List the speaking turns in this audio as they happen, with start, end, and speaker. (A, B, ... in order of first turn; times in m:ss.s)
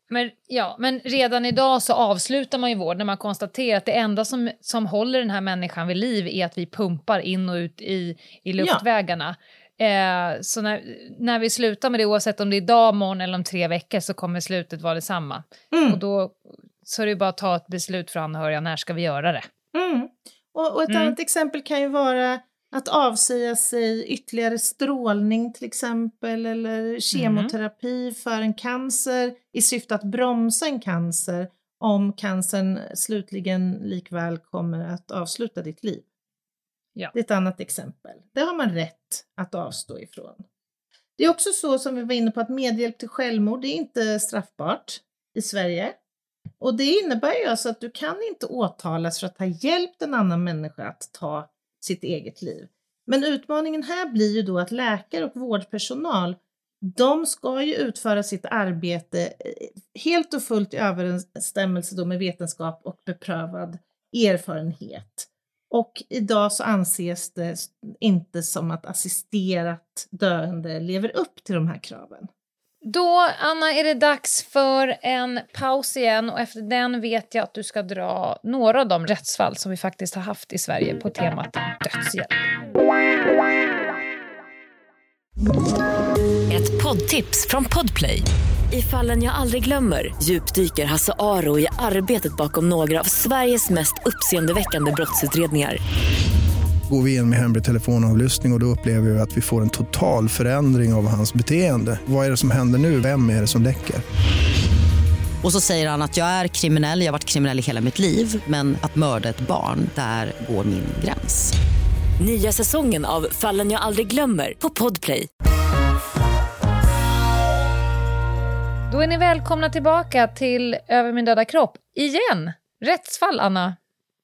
0:00.1-0:19.5 A
0:08.6-0:08.8 B
0:15.7-0:16.0 B
0:19.7-0:36.1 B
0:20.9-0:21.2 A
0:27.1-0:27.5 A
0:37.1-0:40.4 B
0:41.2-0:46.0 B
0:46.6-1:12.3 B
1:12.8-1:22.4 A
1:26.5-1:35.8 C
1:36.9-1:44.0 D
1:45.4-1:51.5 E
1:52.2-1:55.3 C
1:58.9-2:03.8 A